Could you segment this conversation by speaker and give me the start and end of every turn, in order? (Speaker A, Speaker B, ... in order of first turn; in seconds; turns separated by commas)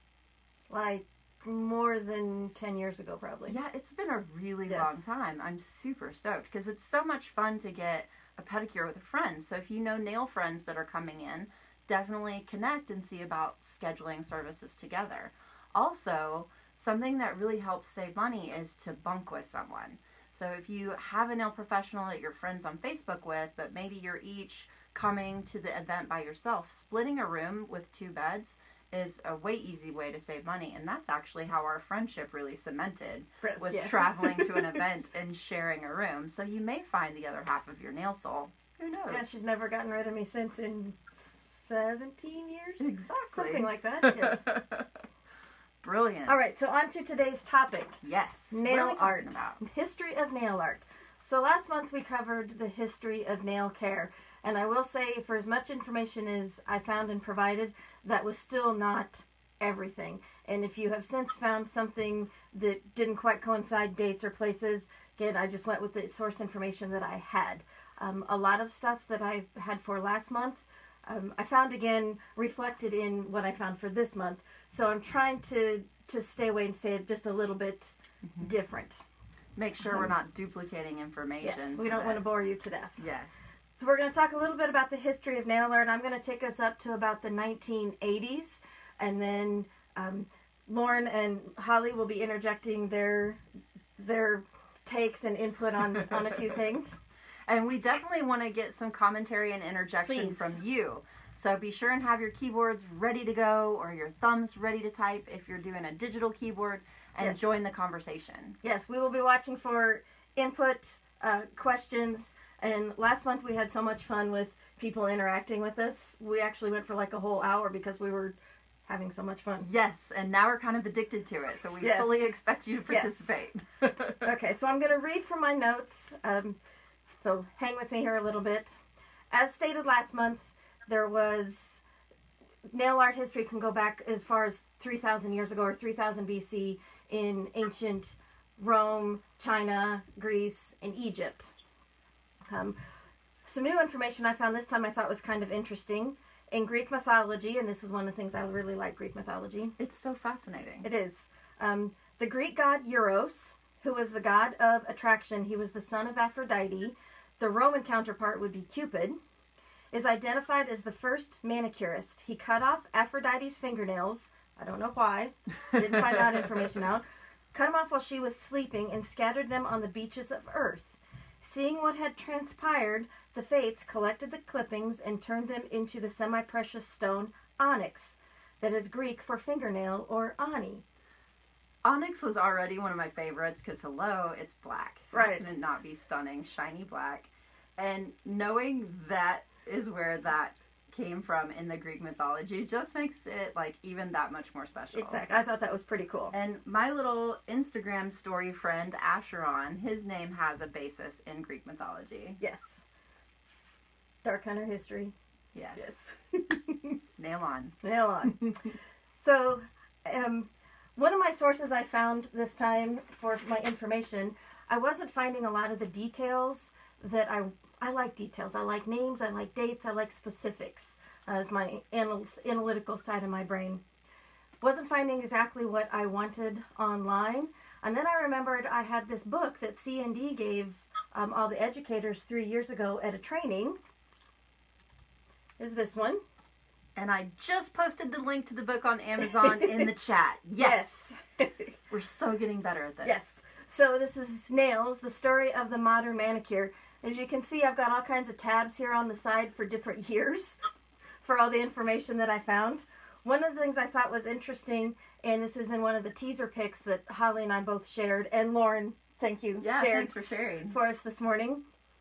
Speaker A: 0.7-3.5, Speaker B: 3.5-39.3, Speaker A: 4.7-5.0, Speaker A: 33.4-34.8, Speaker A: 39.1-44.5, Speaker B: 42.8-44.9, Speaker B: 45.8-46.4, Speaker A: 46.2-48.0, Speaker B: 48.0-49.6, Speaker A: 48.5-79.0, Speaker B: 79.5-82.2, Speaker A: 79.8-80.1, Speaker A: 81.4-83.0, Speaker B: 83.0-83.3, Speaker A: 83.8-93.4, Speaker A: 94.0-97.0, Speaker B: 97.5-108.6, Speaker A: 100.0-100.5, Speaker A: 107.2-107.4, Speaker A: 108.6-118.3, Speaker A: 118.9-119.7, Speaker B: 119.6-124.2, Speaker A: 121.8-122.3, Speaker A: 122.9-123.2, Speaker A: 124.2-126.6, Speaker A: 127.2-128.8, Speaker A: 129.3-131.8, Speaker A: 132.7-141.5, Speaker A: 142.5-142.8, Speaker A: 143.4-149.8, Speaker B: 149.8-150.9, Speaker A: 150.8-159.2, Speaker A: 159.9-180.8, Speaker B: 165.7-166.8, Speaker B: 181.8-195.2, Speaker A: 185.1-185.5, Speaker A: 194.9-196.3, Speaker B: 196.3-202.4, Speaker A: 202.4-202.8, Speaker A: 204.2-205.1, Speaker B: 205.5-205.8, Speaker A: 205.8-206.9, Speaker B: 207.2-207.7, Speaker A: 207.8-208.6, Speaker A: 209.2-223.8, Speaker A: 224.6-233.8, Speaker A: 235.6-236.2, Speaker B: 236.9-240.9, Speaker A: 239.3-239.8, Speaker A: 240.6-241.7, Speaker B: 241.9-243.2, Speaker A: 243.0-250.6, Speaker A: 251.2-260.1, Speaker B: 259.6-260.8, Speaker A: 260.7-261.6